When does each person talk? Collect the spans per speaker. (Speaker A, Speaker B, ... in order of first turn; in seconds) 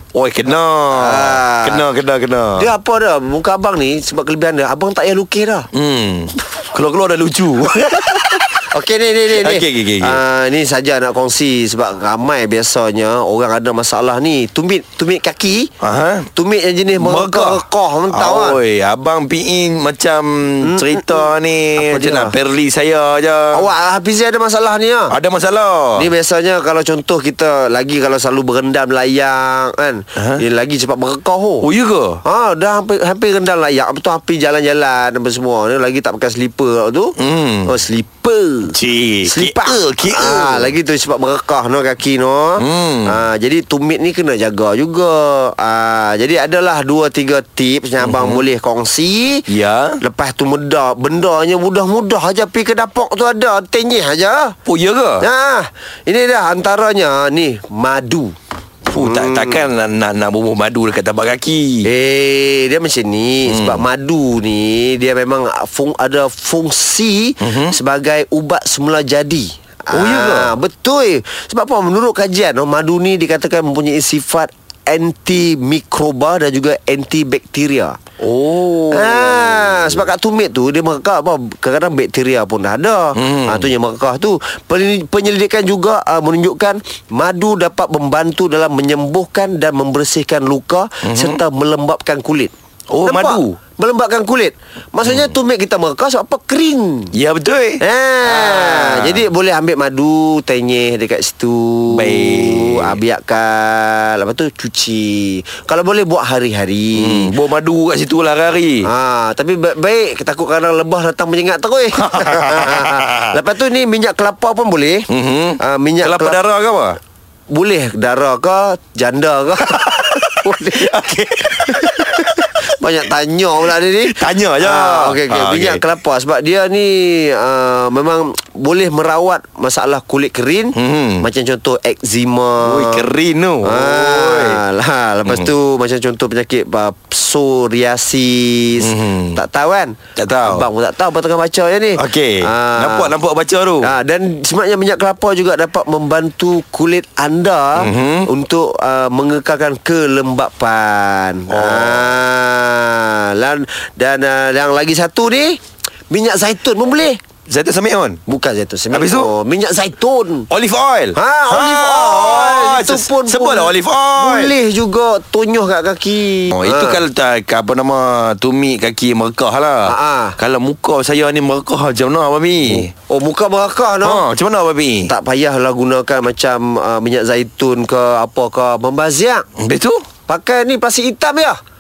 Speaker A: 0.1-2.7, 5.7-8.6, 9.3-10.2, 15.8-16.3, 16.9-23.7, 25.1-26.1, 30.2-30.4, 31.6-32.2, 37.2-37.7, 38.7-40.7, 42.6-43.2, 48.0-48.4, 49.5-50.0, 54.7-55.3, 58.9-61.9, 63.5-63.8, 67.4-67.8, 69.9-70.5, 78.2-80.1, 83.1-83.7, 91.0-91.4, 92.9-93.6, 95.0-95.3, 97.1-99.2, 101.9-103.0, 107.0-108.9, 111.9-113.4, 115.1-117.0, 119.8-122.4, 124.0-125.8, 130.7-131.3, 132.6-134.6, 138.8-139.4, 140.2-140.7, 142.0-143.9, 147.8-148.3, 151.5-152.2, 157.5-158.2, 158.9-159.3, 160.5-164.5, 166.5-172.9, 174.0-175.1, 179.6-180.0
Speaker B: 0.9-1.9, 2.6-5.7, 8.6-15.7, 16.4-18.6, 20.6-21.3, 21.8-22.4, 23.5-25.1, 26.0-31.7, 32.2-49.5, 50.0-54.6, 55.2-58.3, 59.0-59.7, 61.9-78.0, 78.9-92.5, 93.0-97.2, 97.8-107.3, 108.8-115.1, 115.6-116.4, 117.5-121.1, 121.8-133.1, 133.6-143.1, 143.8-157.2, 158.3-160.5, 161.2-167.0, 169.8-170.4, 172.7-174.2, 175.1-179.5, 180.3-181.6